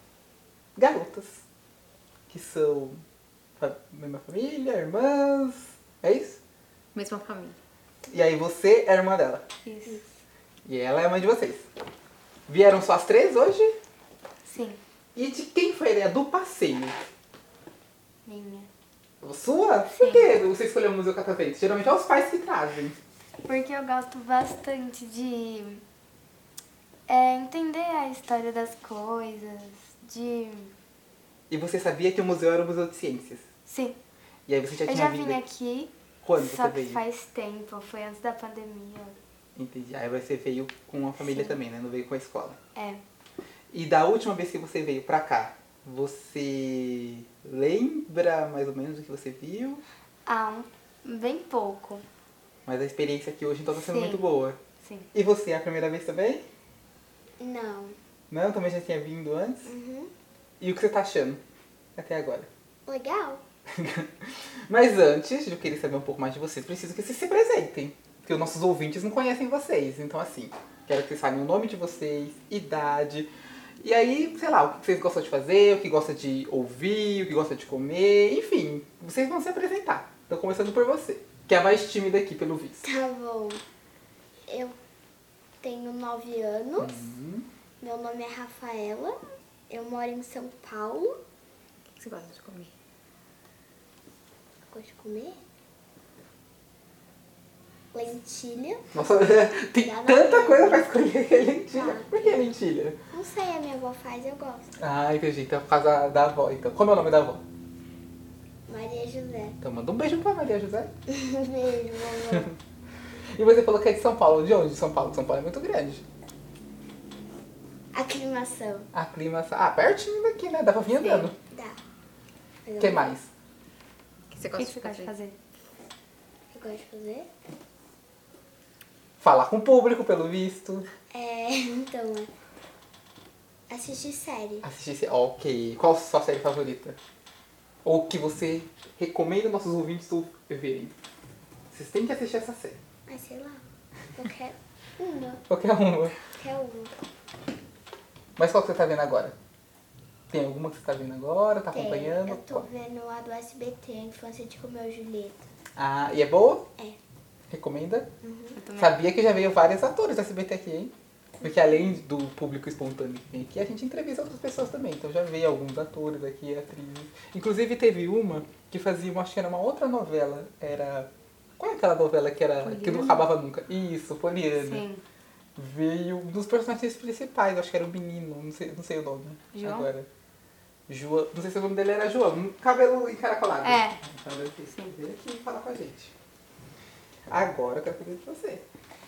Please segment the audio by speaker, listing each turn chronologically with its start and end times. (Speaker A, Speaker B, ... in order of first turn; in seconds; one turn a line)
Speaker A: 0.8-1.4
Speaker A: 2.3-3.0
Speaker A: 3.6-6.4
Speaker B: 6.9-7.6
Speaker A: 8.1-9.4
Speaker C: 9.6-10.2
Speaker A: 10.6-11.7
Speaker A: 12.5-13.7
Speaker C: 14.4-14.8
Speaker A: 15.1-17.0
Speaker C: 18.2-18.7
Speaker A: 19.2-23.0
Speaker C: 19.9-20.4
Speaker C: 23.4-25.8
Speaker C: 27.1-30.7
Speaker A: 31.5-33.5
Speaker C: 33.6-34.0
Speaker A: 34.5-35.4
Speaker C: 34.8-39.2
Speaker A: 36.2-37.0
Speaker A: 39.5-42.6
Speaker C: 41.2-41.6
Speaker C: 42.7-43.0
Speaker A: 43.7-49.8
Speaker C: 50.2-52.0
Speaker A: 52.6-54.6
Speaker C: 53.7-54.3
Speaker C: 54.8-55.1
Speaker A: 55.1-56.4
Speaker D: 57.4-58.0
Speaker A: 58.3-59.7
Speaker D: 59.6-60.1
Speaker A: 60.6-61.4
Speaker A: 62.0-62.5
Speaker D: 62.9-63.4
Speaker A: 63.7-82.8
Speaker D: 82.8-83.6
Speaker D: 84.5-84.8
Speaker D: 85.6-87.1
Speaker A: 86.8-87.5
Speaker D: 87.8-91.2
Speaker B: 92.0-92.7
Speaker D: 94.7-95.4
Speaker D: 97.9-98.9
Speaker A: 98.9-103.0
Speaker D: 99.8-100.9
Speaker D: 101.7-102.5
Speaker D: 103.1-104.7
Speaker A: 104.8-107.4
Speaker D: 108.7-109.6
Speaker A: 109.6-110.9
Speaker D: 111.1-112.5
Speaker A: 113.3-116.0
Speaker D: 117.9-118.9
Speaker A: 118.9-121.3
Speaker D: 121.4-121.8
Speaker D: 122.6-123.2
Speaker A: 122.8-123.3
Speaker B: 124.3-125.1
Speaker C: 124.5-125.4
Speaker D: 126.5-127.3
Speaker A: 129.2-130.9
Speaker D: 131.1-132.3
Speaker D: 133.7-134.6
Speaker A: 134.6-137.0
Speaker A: 137.8-140.9
Speaker A: 141.7-142.8
Speaker D: 143.1-143.6
Speaker D: 144.1-145.4
Speaker A: 145.5-146.2
Speaker D: 146.2-146.9
Speaker A: 148.4-149.3
Speaker A: 150.3-152.7
Speaker D: 151.7-155.4
Speaker A: 155.8-156.7
Speaker A: 157.5-158.1
Speaker D: 158.2-158.6
Speaker C: 158.5-159.0
Speaker A: 158.8-174.8
Speaker D: 161.4-161.9
Speaker C: 172.6-173.3
Speaker C: 174.6-175.0
Speaker A: 175.6-180.1
Speaker C: 179.5-179.9
Speaker A: 180.9-186.1
Speaker C: 183.6-184.0
Speaker A: 187.3-188.7